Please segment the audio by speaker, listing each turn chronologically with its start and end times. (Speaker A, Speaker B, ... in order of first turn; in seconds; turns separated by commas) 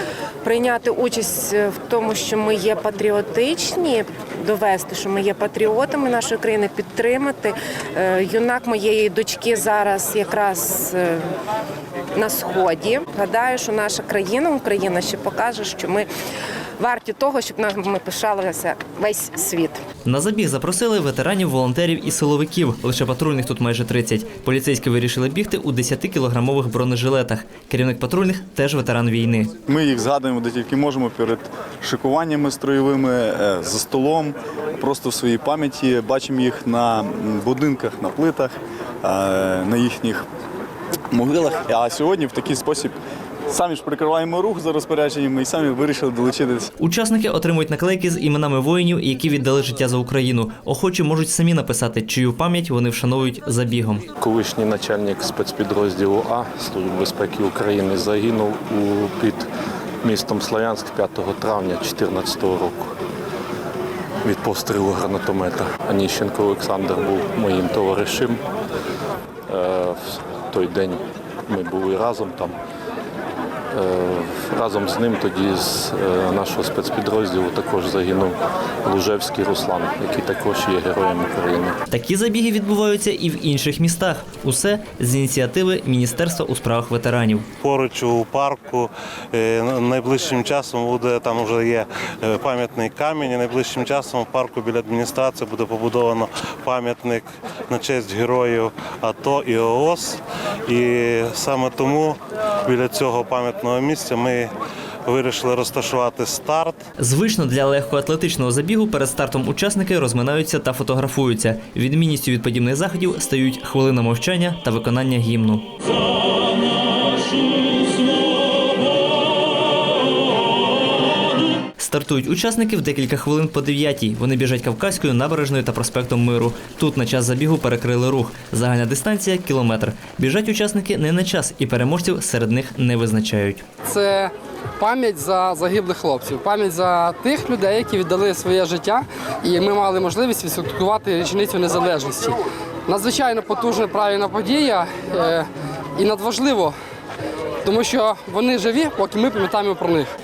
Speaker A: 0.4-11.2, Speaker A: 12.1-16.1, Speaker A: 16.8-19.8, Speaker B: 20.0-29.5, Speaker C: 29.7-40.2, Speaker C: 41.1-43.0, Speaker C: 43.5-46.7, Speaker B: 46.8-54.0, Speaker D: 54.2-59.5, Speaker D: 60.0-62.9, Speaker D: 64.2-68.4, Speaker D: 69.5-72.6, Speaker D: 73.7-81.8, Speaker B: 81.9-87.5, Speaker E: 87.6-104.5, Speaker E: 105.0-106.8, Speaker B: 107.0-115.7, Speaker B: 121.8-133.6, Speaker F: 133.8-146.8, Speaker F: 147.6-150.1